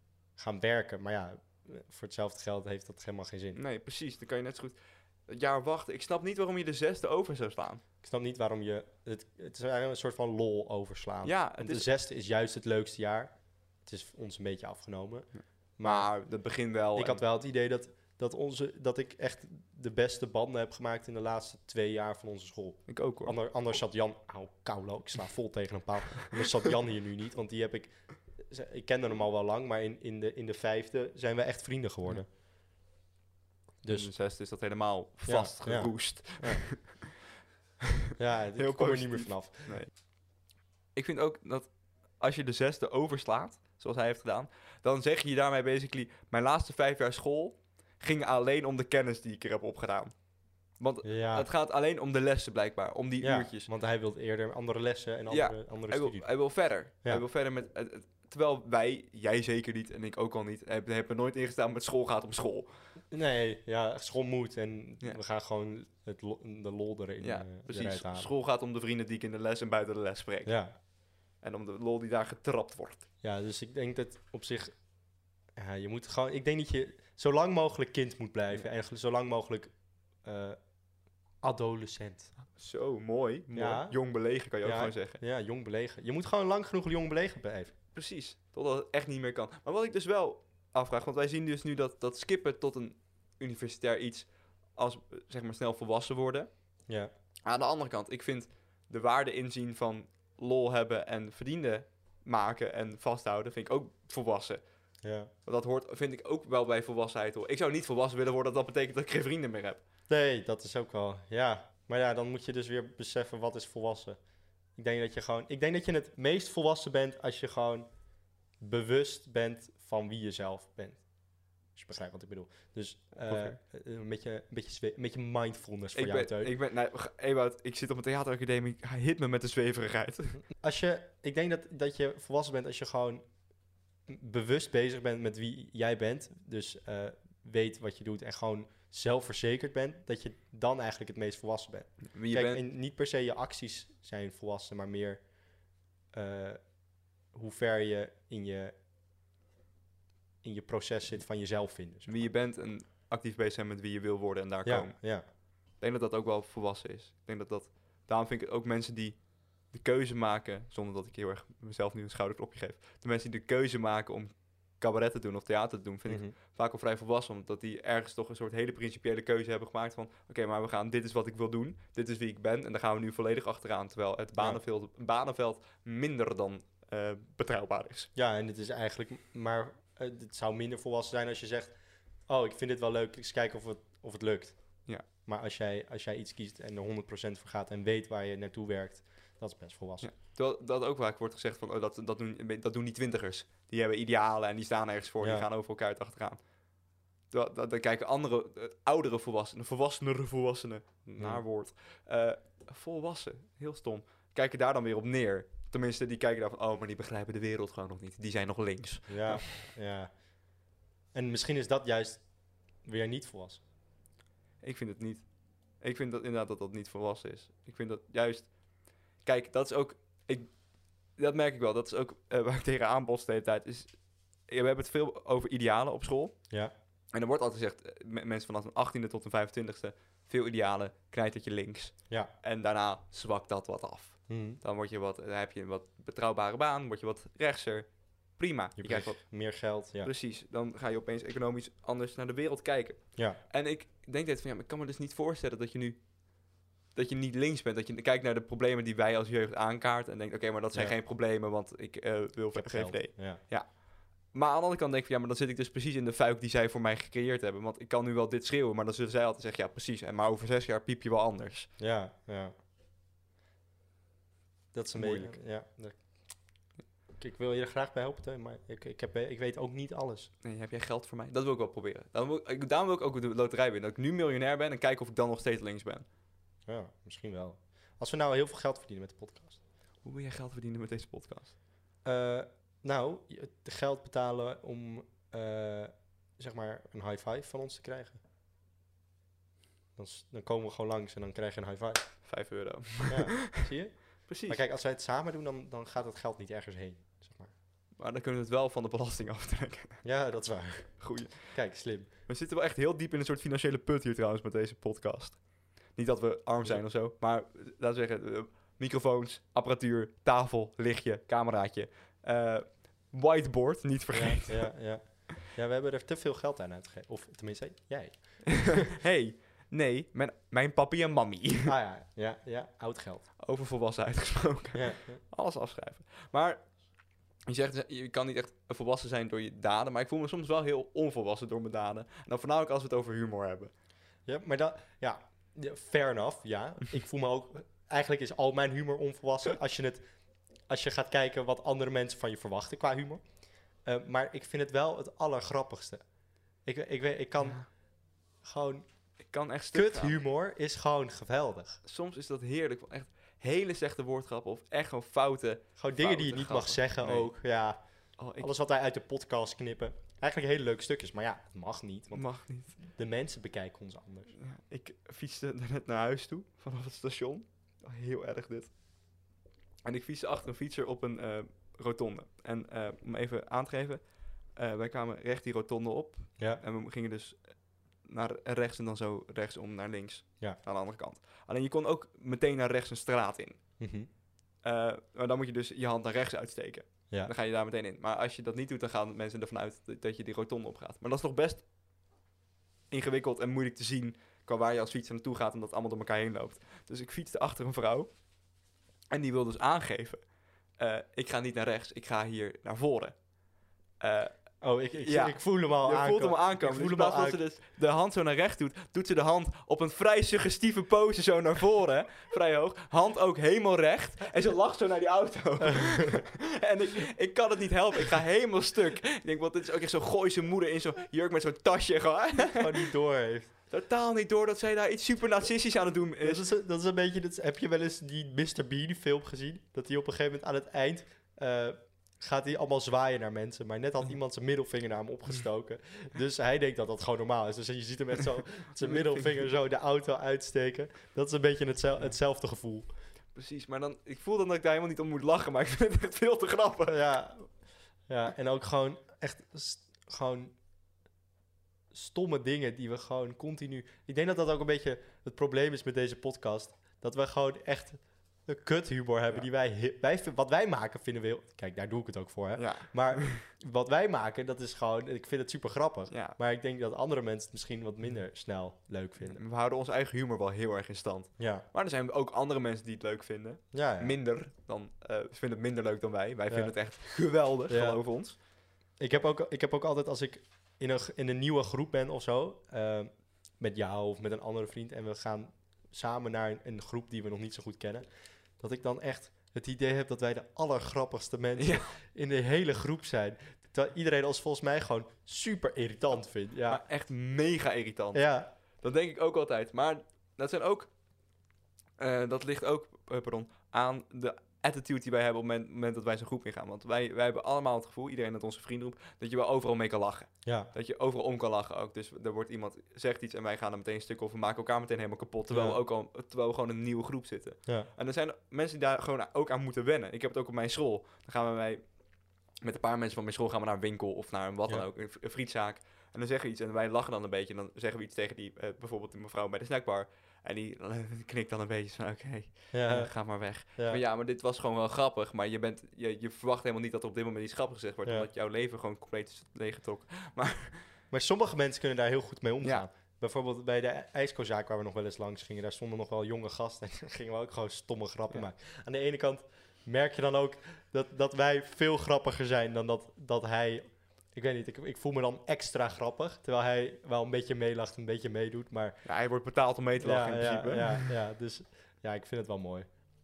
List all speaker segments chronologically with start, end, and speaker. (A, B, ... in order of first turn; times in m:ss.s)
0:00.4-0:03.6 A
0:03.6-0:07.8 B
0:08.0-0:16.1 A
0:11.2-0:11.9 B
0:15.8-0:17.2 B
0:16.9-0:32.3 A
0:22.9-0:23.3 B
0:33.8-0:34.1 A
0:33.9-0:37.1 B
0:35.2-0:36.6 A
0:38.2-0:39.8 A
0:38.6-0:39.9 B
0:40.9-0:50.1 B
0:50.8-0:53.7 B
0:51.0-0:51.5 A
0:53.2-0:56.2 A
0:55.3-1:02.7 B
1:03.1-1:08.3 A
1:07.2-1:10.6 B
1:10.4-1:10.7 A
1:11.4-1:13.0 B
1:13.2-1:14.8 A
1:15.6-1:20.6 A
1:21.4-1:22.3 A
1:22.5-1:25.2 B
1:23.5-1:24.0 A
1:24.6-1:27.7 A
1:27.9-1:36.5 B
1:37.4-1:44.6 B
1:45.0-1:45.3 A
1:45.4-1:49.8 B
1:50.1-1:54.2 A
1:54.7-1:57.9 A
1:58.6-2:01.1 A
2:01.7-2:06.5 A
2:03.2-2:03.6 B
2:06.0-2:10.4 B
2:10.6-2:13.2 A
2:14.1-2:25.2 A
2:22.1-2:22.6 B
2:26.1-2:26.7 A
2:27.3-2:28.7 A
2:30.4-2:32.2 A
2:32.1-2:58.1 B
2:34.6-2:35.3 A
2:46.1-2:46.3 A
2:58.1-3:01.7 A
3:02.3-3:10.1 A
3:10.0-3:16.4 B
3:15.2-3:15.4 A
3:17.3-3:29.7 B
3:29.1-3:30.1 A
3:31.1-3:32.2 A
3:32.8-3:33.6 A
3:34.6-3:35.2 B
3:35.8-3:40.5 B
3:41.1-3:44.0 B
3:44.5-3:46.4 B
3:47.1-4:06.0 B
3:54.3-3:54.6 A
3:58.8-4:00.1 A
4:06.9-4:21.7 B
4:12.5-4:13.4 A
4:21.8-4:22.5 A
4:24.7-4:26.3 A
4:25.0-4:25.4 B
4:27.2-4:30.3 A
4:30.4-4:36.0 B
4:36.6-4:39.6 A
4:40.0-4:41.5 B
4:42.0-4:48.2 A
4:50.0-4:52.2 A
4:52.2-4:53.7 B
4:53.1-4:57.5 A
4:54.3-4:54.6 B
4:58.0-5:00.0 B
5:00.0-5:02.1 A
5:01.0-5:01.6 B
5:02.3-5:14.7 B
5:14.1-5:18.8 A
5:18.5-5:21.7 B
5:21.6-5:23.3 A
5:23.4-5:26.7 B
5:24.7-5:25.2 A
5:27.4-5:33.7 B
5:34.3-5:40.0 A
5:40.7-5:43.2 A
5:43.8-5:46.0 A
5:46.6-5:47.7 A
5:47.4-5:47.6 B
5:48.4-5:48.8 A
5:49.3-5:50.2 B
5:49.7-5:51.8 A
5:51.8-5:57.3 B
5:55.8-5:57.8 A
5:58.2-5:58.5 B
5:58.4-6:02.3 A
6:02.1-6:02.8 B
6:02.8-6:04.3 A
6:04.4-6:08.7 B
6:09.8-6:17.4 B
6:18.0-6:23.8 B
6:23.8-6:24.1 A
6:24.6-6:31.6 B
6:32.9-6:38.1 B
6:39.1-6:40.2 B
6:40.8-6:43.2 B
6:44.0-6:44.3 B
6:44.6-6:47.4 A
6:45.0-7:02.8 B
6:55.9-6:56.2 A
7:02.5-7:03.5 A
7:03.7-7:06.4 B
7:06.2-7:22.9 A
7:18.8-7:19.4 B
7:23.3-7:27.0 B
7:26.9-7:27.5 A
7:28.1-7:30.5 A
7:31.9-7:49.4 A
7:42.6-7:43.4 B
7:46.1-7:46.4 B
7:49.2-7:58.4 B
7:51.4-7:51.6 A
7:53.7-7:54.2 A
7:57.7-7:58.0 A
7:59.0-8:08.0 A
8:08.6-8:16.8 A
8:11.6-8:11.9 B
8:16.7-8:20.9 B
8:18.1-8:18.5 A
8:22.0-8:41.8 B
8:30.4-8:30.7 A
8:35.5-8:35.8 A
8:42.6-9:00.8 B
8:52.7-8:53.1 A
8:53.8-8:54.0 A
9:01.1-9:19.0 A
9:19.0-9:21.1 B
9:20.0-9:22.9 A